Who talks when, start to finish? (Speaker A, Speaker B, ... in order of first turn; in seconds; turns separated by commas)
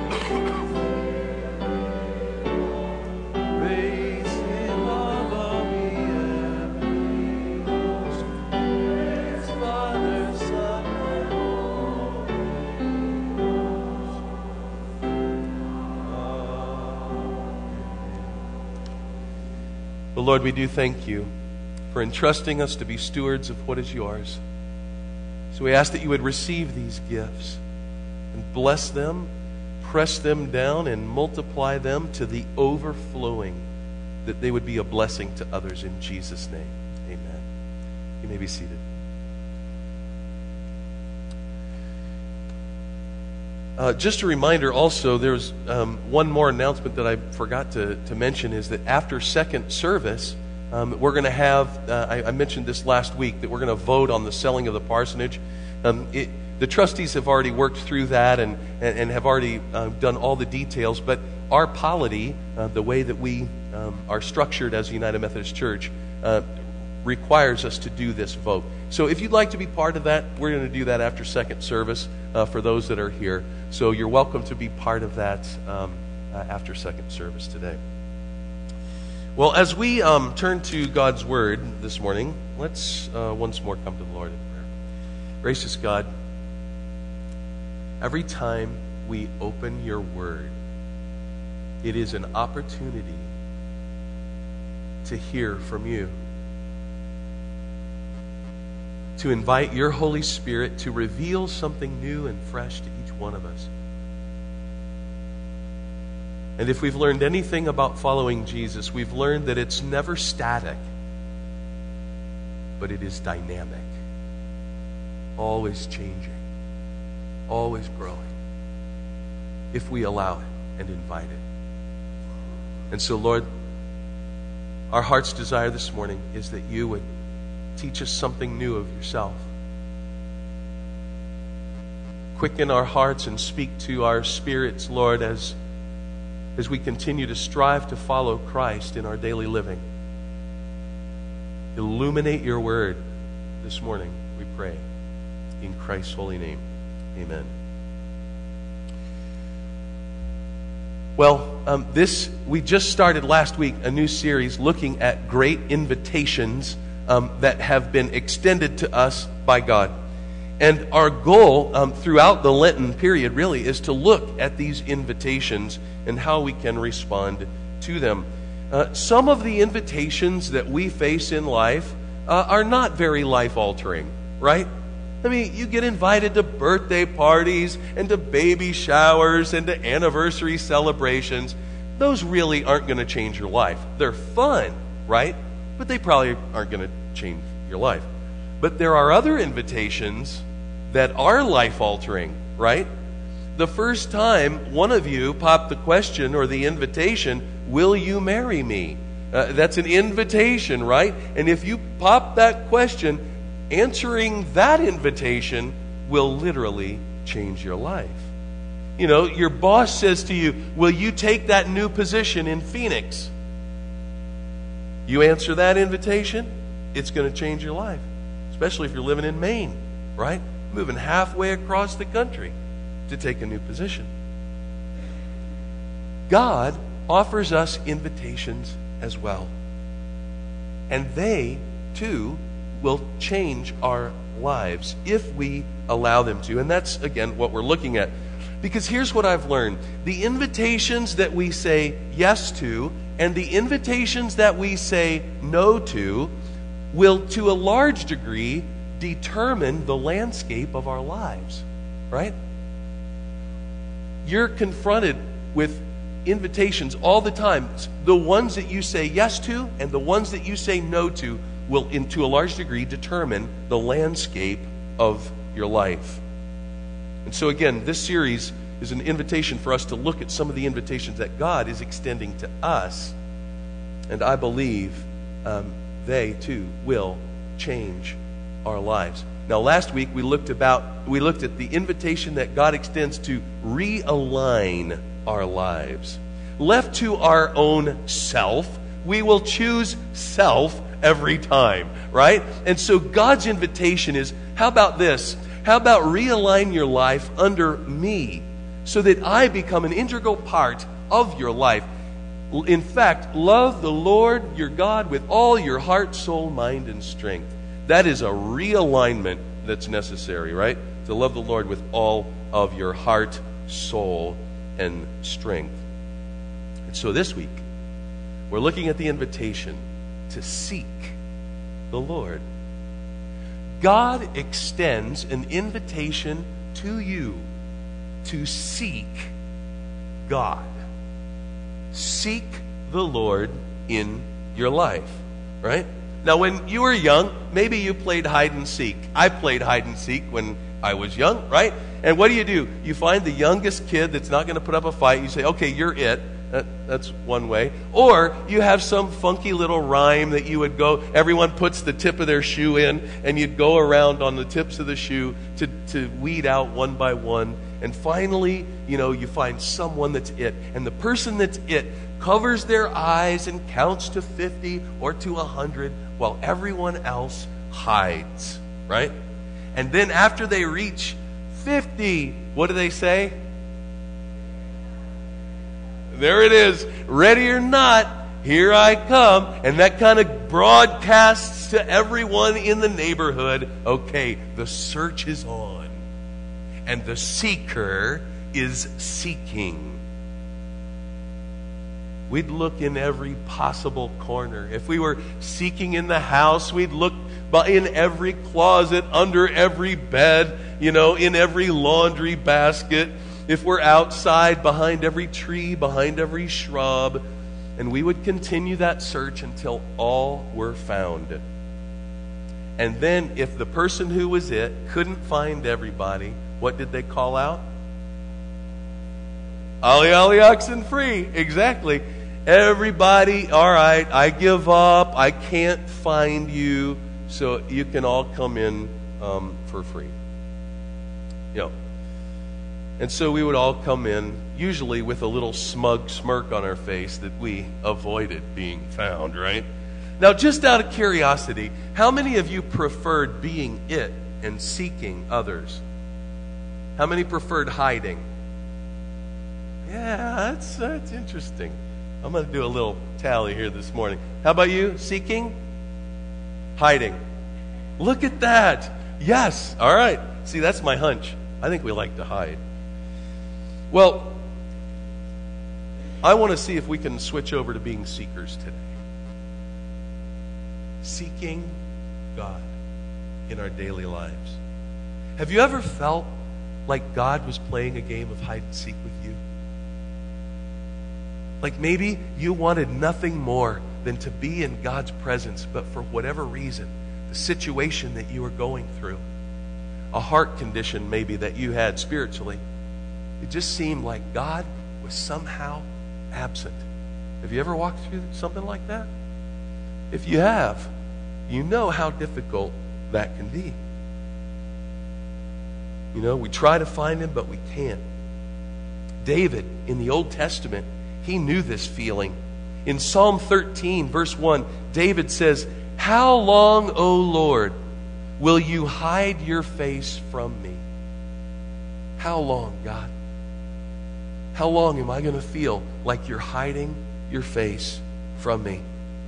Speaker A: 3.5-12.5, Speaker A: 16.0-17.3, Speaker A: 20.1-21.3, Speaker A: 21.9-24.4, Speaker A: 25.5-27.6, Speaker A: 28.3-29.3, Speaker A: 29.8-33.6, Speaker A: 34.2-37.4, Speaker A: 38.2-38.8, Speaker A: 43.8-66.4, Speaker A: 67.0-77.8, Speaker A: 79.3-84.7, Speaker A: 85.4-86.1, Speaker A: 88.0-90.5, Speaker A: 91.8-93.3, Speaker A: 95.0-96.1, Speaker A: 99.2-103.7, Speaker A: 106.6-110.8, Speaker A: 112.8-113.9, Speaker A: 115.4-116.4, Speaker A: 117.5-118.3, Speaker A: 119.7-121.4, Speaker A: 122.9-123.4, Speaker A: 124.9-127.0, Speaker A: 127.8-129.4, Speaker A: 132.3-135.6, Speaker A: 136.6-139.8, Speaker A: 141.7-143.0, Speaker A: 143.6-144.8, Speaker A: 145.6-146.6, Speaker A: 147.1-147.5, Speaker A: 151.2-159.9, Speaker A: 160.6-174.7, Speaker A: 175.2-188.1, Speaker A: 188.6-192.9, Speaker A: 193.5-208.3, Speaker A: 209.0-213.3, Speaker A: 215.1-222.5, Speaker A: 223.1-224.1, Speaker A: 226.3-229.5, Speaker A: 230.9-246.3, Speaker A: 246.9-252.3, Speaker A: 254.2-266.2, Speaker A: 267.2-273.1, Speaker A: 274.1-301.9, Speaker A: 302.5-315.8, Speaker A: 316.8-317.6, Speaker A: 318.5-321.2, Speaker A: 321.9-322.4, Speaker A: 323.8-327.5, Speaker A: 328.2-329.3, Speaker A: 330.3-330.7, Speaker A: 331.9-369.1, Speaker A: 369.7-373.3, Speaker A: 376.1-386.0, Speaker A: 386.9-390.0, Speaker A: 392.3-407.2, Speaker A: 407.8-411.4, Speaker A: 412.8-417.6, Speaker A: 419.8-430.1, Speaker A: 433.0-439.6, Speaker A: 440.2-445.8, Speaker A: 447.0-448.2, Speaker A: 449.9-455.5, Speaker A: 456.8-457.2, Speaker A: 458.0-462.6, Speaker A: 463.9-464.4, Speaker A: 466.2-468.9, Speaker A: 471.0-471.8, Speaker A: 472.3-472.7, Speaker A: 473.5-474.6, Speaker A: 475.4-476.3, Speaker A: 476.9-479.4, Speaker A: 481.6-489.2, Speaker A: 490.1-492.6, Speaker A: 493.4-496.8, Speaker A: 497.4-499.1, Speaker A: 500.1-500.9, Speaker A: 501.5-503.8, Speaker A: 506.1-508.0, Speaker A: 509.2-517.7, Speaker A: 518.4-520.8, Speaker A: 522.2-523.1, Speaker A: 524.5-528.8